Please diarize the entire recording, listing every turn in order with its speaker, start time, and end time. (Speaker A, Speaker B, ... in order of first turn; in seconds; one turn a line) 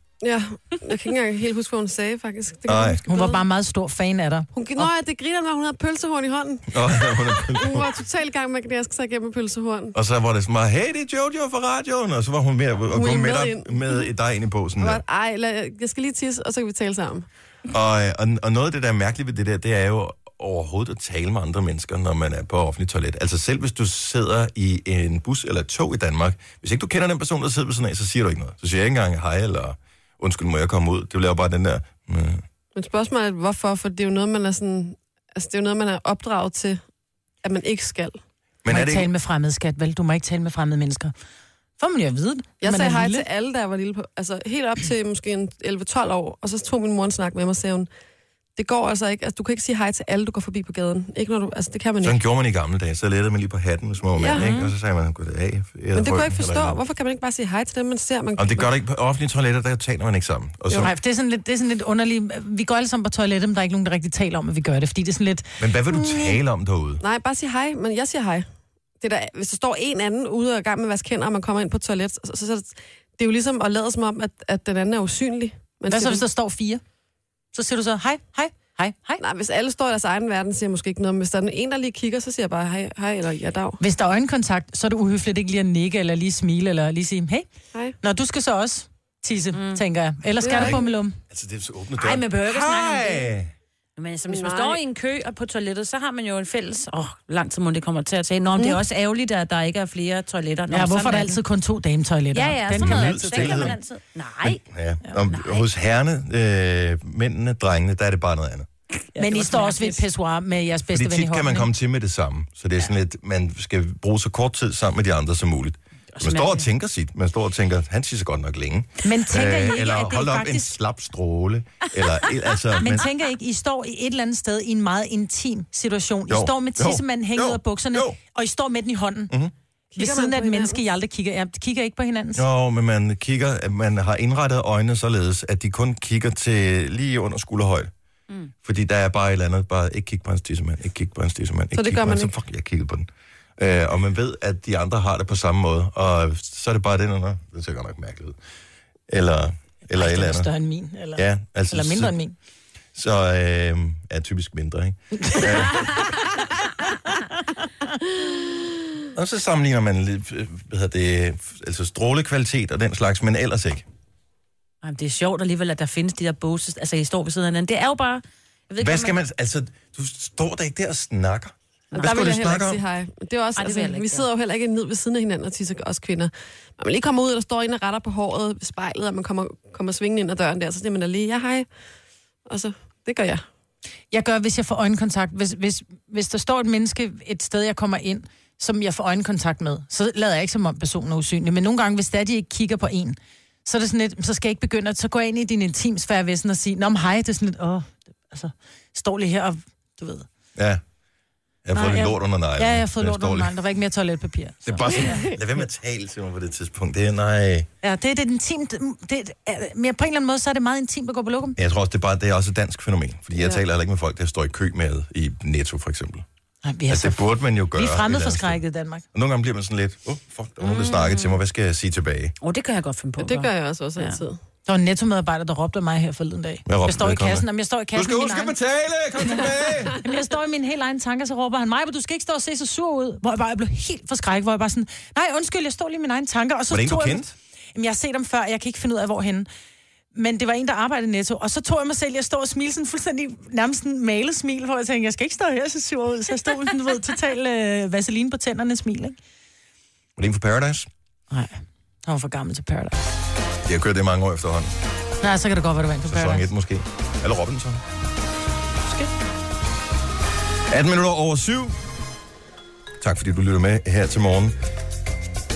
Speaker A: 0.2-3.4
Speaker B: 2.7-3.0
Speaker C: 3.1-4.5
Speaker A: 4.5-9.9
Speaker B: 6.7-7.9
Speaker B: 9.9-15.0
Speaker A: 12.9-14.1
Speaker A: 14.8-17.3
Speaker B: 17.7-32.4
Speaker A: 32.8-36.8
Speaker A: 37.4-38.2
Speaker B: 38.6-39.1
Speaker C: 38.7-41.1
Speaker C: 41.8-43.3
Speaker A: 42.6-47.9
Speaker A: 48.6-52.2
Speaker B: 52.0-56.8
Speaker A: 54.2-54.5
Speaker D: 54.3-54.7
Speaker A: 55.9-58.7
Speaker B: 58.4-60.9
Speaker C: 60.8-66.4
Speaker B: 65.6-67.0
Speaker A: 67.0-68.5
Speaker A: 69.0-76.2
Speaker C: 75.9-76.8
Speaker C: 77.5-79.2
Speaker A: 79.2-83.8
Speaker C: 83.8-87.5
Speaker C: 88.0-91.2
Speaker D: 89.5-89.8
Speaker A: 90.4-90.8
Speaker B: 90.5-93.5
Speaker D: 92.0-93.3
Speaker D: 94.0-101.4
Speaker A: 94.3-94.8
Speaker C: 100.7-103.8
Speaker D: 102.3-104.6
Speaker B: 102.7-103.8
Speaker B: 104.4-108.7
Speaker D: 105.2-105.7
Speaker D: 109.1-110.0
Speaker C: 109.2-111.7
Speaker B: 110.9-123.0
Speaker D: 116.2-116.7
Speaker C: 119.0-120.7
Speaker C: 122.8-129.3
Speaker B: 126.3-128.2
Speaker A: 129.9-130.8
Speaker C: 130.0-132.4
Speaker B: 132.3-137.9
Speaker B: 138.6-148.4
Speaker A: 141.8-142.3
Speaker B: 149.1-150.5
Speaker C: 150.0-152.3
Speaker B: 151.2-152.2
Speaker B: 152.9-156.1
Speaker C: 155.2-155.5
Speaker B: 159.2-163.9
Speaker D: 164.8-169.2
Speaker B: 168.8-172.8
Speaker A: 171.9-181.7
Speaker D: 173.6-174.3
Speaker A: 182.5-183.4
Speaker C: 184.1-200.3
Speaker B: 200.6-200.8
Speaker B: 201.7-203.5
Speaker C: 201.7-205.2
Speaker B: 204.7-207.7
Speaker A: 204.9-205.3
Speaker C: 207.8-211.6
Speaker B: 211.6-216.2
Speaker C: 216.7-219.0
Speaker B: 216.9-218.6
Speaker B: 219.1-222.3
Speaker D: 220.7-221.3
Speaker D: 222.4-224.2
Speaker A: 223.2-224.4
Speaker C: 224.7-228.6
Speaker B: 226.7-230.0
Speaker C: 230.0-239.5
Speaker B: 236.7-237.3
Speaker C: 240.1-249.2
Speaker B: 250.2-250.9
Speaker C: 251.3-253.0
Speaker B: 253.7-254.7
Speaker C: 255.2-256.5
Speaker B: 256.1-257.8
Speaker B: 260.7-261.8
Speaker B: 263.0-264.6